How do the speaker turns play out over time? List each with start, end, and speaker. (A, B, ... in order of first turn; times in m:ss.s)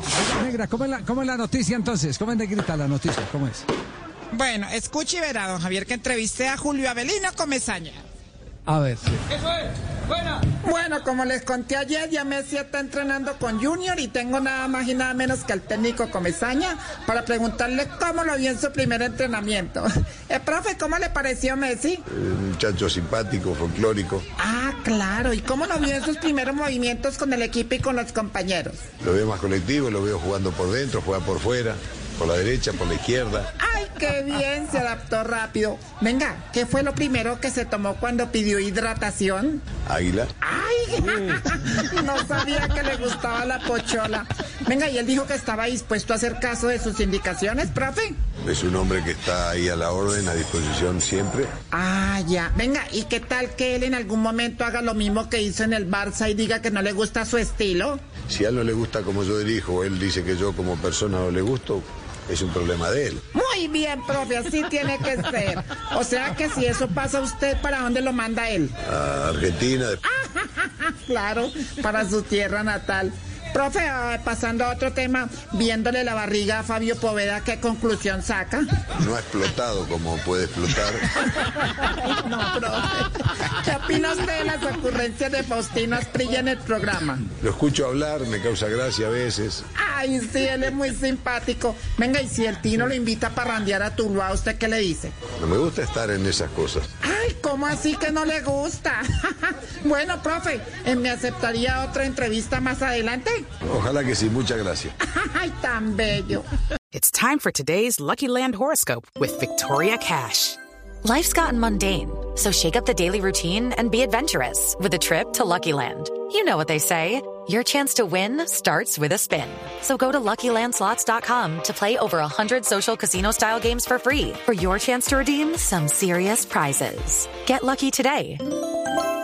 0:00.2-0:03.6 A
0:04.3-0:08.0 B
0:08.7-0:09.2 A
0:10.6-0:22.0 B
0:22.1-0:24.2 C
0:24.4-0:28.8 B
0:29.0-0:33.5 C
0:33.6-0:39.7 B
0:39.9-0:40.3 C
0:40.4-0:48.2 B
0:48.4-0:51.5 C
0:51.7-0:58.0 B
0:58.3-1:03.2 C
1:03.3-1:08.8 B
1:08.8-1:10.0 C
1:10.1-1:18.6 B
1:19.0-1:21.1 C
1:22.0-1:27.2 B
1:27.4-1:29.7 C
1:29.8-1:35.2 B
1:35.4-1:36.9 C
1:37.0-1:43.5 B
1:43.6-1:45.0 C
1:45.0-1:46.5 B
1:46.9-1:50.6 D
1:51.0-2:08.6 E